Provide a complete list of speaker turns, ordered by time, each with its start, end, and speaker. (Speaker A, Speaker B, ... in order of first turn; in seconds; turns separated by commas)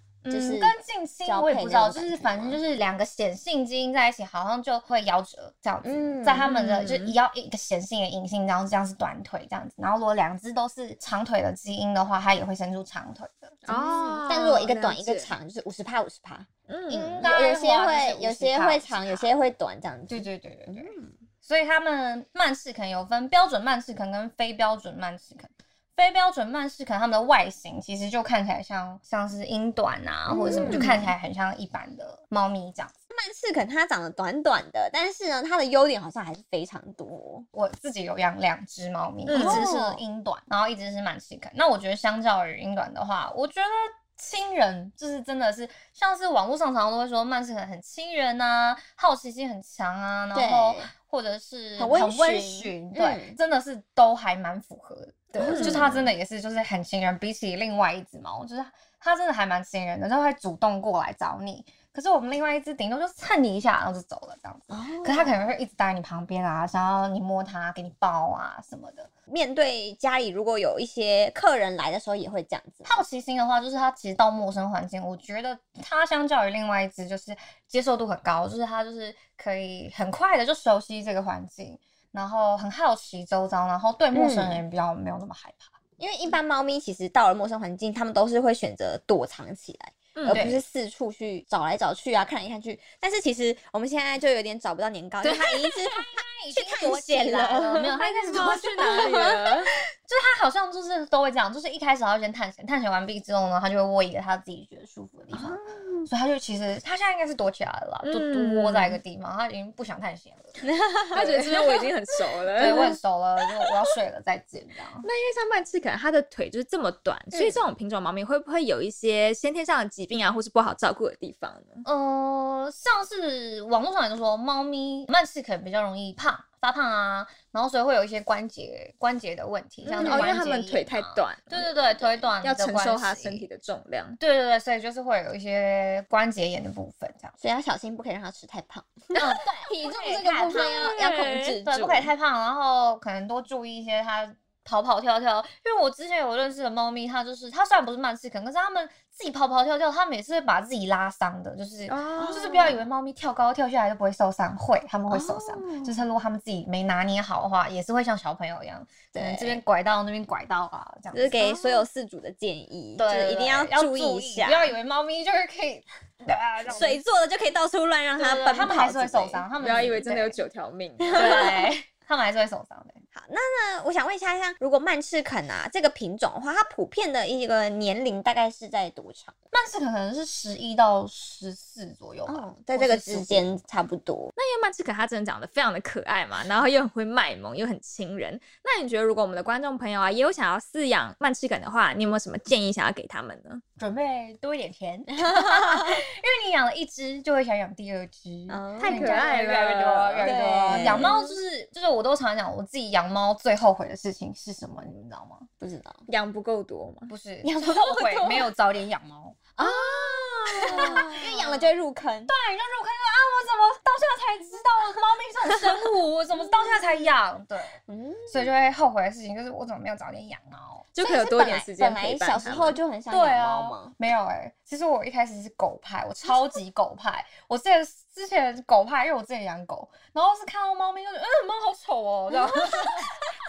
Speaker A: 0.2-13.7, Speaker B: 0.3-2.6, Speaker B: 5.8-6.5, Speaker C: 6.4-7.2, Speaker C: 13.7-15.3, Speaker B: 13.7-21.1, Speaker C: 16.7-17.3, Speaker A: 16.9-19.4, Speaker A: 20.1-32.9, Speaker B: 30.3-31.1, Speaker C: 30.5-31.0, Speaker B: 33.1-37.5, Speaker A: 37.5-69.1, Speaker C: 39.3-39.7, Speaker B: 39.3-40.0, Speaker B: 50.3-50.9, Speaker B: 51.8-53.4, Speaker B: 55.3-56.1, Speaker C: 55.4-56.1, Speaker B: 64.7-65.4, Speaker B: 69.3-73.0, Speaker A: 72.8-85.7, Speaker B: 84.1-84.6, Speaker B: 86.0-97.9, Speaker C: 90.2-90.5, Speaker A: 90.3-90.6, Speaker A: 95.2-99.5, Speaker C: 97.8-99.7, Speaker B: 98.8-99.2, Speaker A: 100.0-111.9, Speaker B: 105.3-106.1, Speaker C: 108.0-109.0, Speaker B: 110.7-111.2, Speaker C: 111.1-113.0, Speaker A: 112.5-115.1, Speaker B: 112.6-113.0, Speaker C: 115.0-121.8, Speaker B: 117.3-117.6, Speaker A: 121.8-133.5, Speaker C: 129.8-134.2, Speaker B: 130.0-130.4, Speaker A: 134.2-137.3, Speaker B: 137.4-142.1, Speaker A: 139.1-161.8, Speaker C: 140.5-141.6, Speaker C: 151.9-152.8, Speaker B: 155.1-156.0, Speaker B: 159.1-159.6, Speaker B: 161.1-164.8, Speaker A: 163.0-167.0, Speaker B: 166.6-169.5, Speaker A: 168.2-170.4, Speaker C: 169.6-171.5, Speaker B: 171.0-171.7, Speaker A: 171.1-173.0, Speaker B: 173.1-179.3, Speaker A: 179.5-183.6, Speaker B: 182.2-184.3, Speaker C: 184.3-193.6, Speaker A: 193.8-205.5, Speaker B: 195.2-195.5, Speaker B: 198.5-199.2, Speaker C: 198.8-201.4, Speaker B: 200.2-201.1, Speaker B: 205.6-206.0, Speaker C: 206.1-207.1, Speaker A: 207.1-211.7, Speaker B: 207.4-208.5, Speaker B: 209.6-212.3, Speaker A: 212.3-220.8, Speaker B: 217.9-218.5, Speaker C: 220.9-222.8, Speaker B: 221.0-223.9, Speaker A: 223.1-233.1, Speaker B: 232.3-233.1